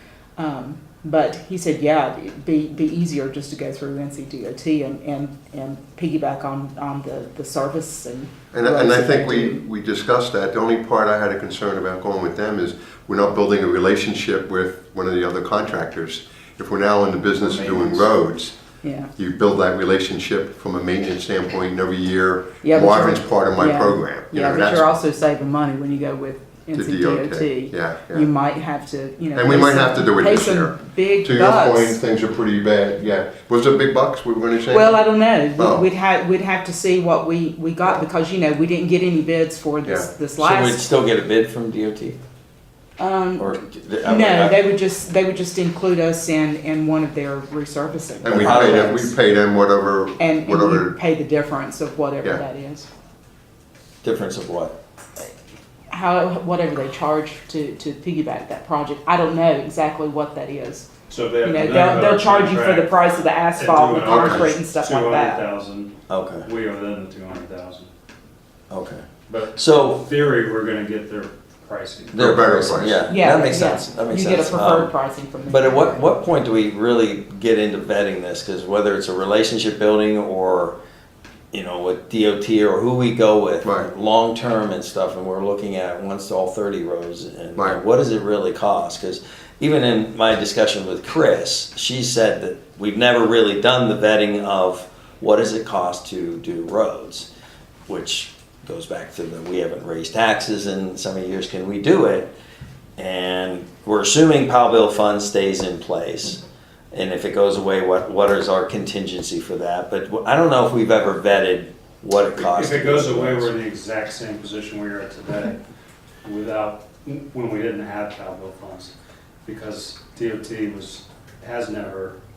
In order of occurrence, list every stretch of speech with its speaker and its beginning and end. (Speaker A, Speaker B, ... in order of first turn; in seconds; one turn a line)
Speaker A: 0.4-9.6
Speaker B: 8.5-18.6
Speaker A: 18.8-19.1
Speaker B: 19.1-24.9
Speaker A: 22.6-32.0
Speaker B: 26.7-28.3
Speaker B: 29.3-35.0
Speaker A: 34.6-40.8
Speaker B: 35.5-35.9
Speaker B: 39.8-40.1
Speaker C: 40.4-42.2
Speaker A: 43.0-49.1
Speaker C: 43.4-44.6
Speaker B: 48.2-50.9
Speaker C: 48.3-49.0
Speaker A: 50.2-52.9
Speaker C: 54.0-54.7
Speaker A: 55.9-60.9
Speaker D: 61.1-63.0
Speaker A: 61.4-65.4
Speaker D: 63.5-67.9
Speaker B: 64.0-64.5
Speaker C: 66.1-66.5
Speaker C: 68.7-70.0
Speaker D: 69.3-72.7
Speaker C: 72.1-74.9
Speaker B: 72.1-73.0
Speaker A: 73.1-76.0
Speaker C: 75.5-80.8
Speaker C: 81.5-97.3
Speaker B: 83.6-83.9
Speaker C: 97.9-102.3
Speaker C: 103.0-106.4
Speaker C: 106.9-113.5
Speaker D: 112.3-115.6
Speaker D: 116.2-118.9
Speaker D: 119.4-122.2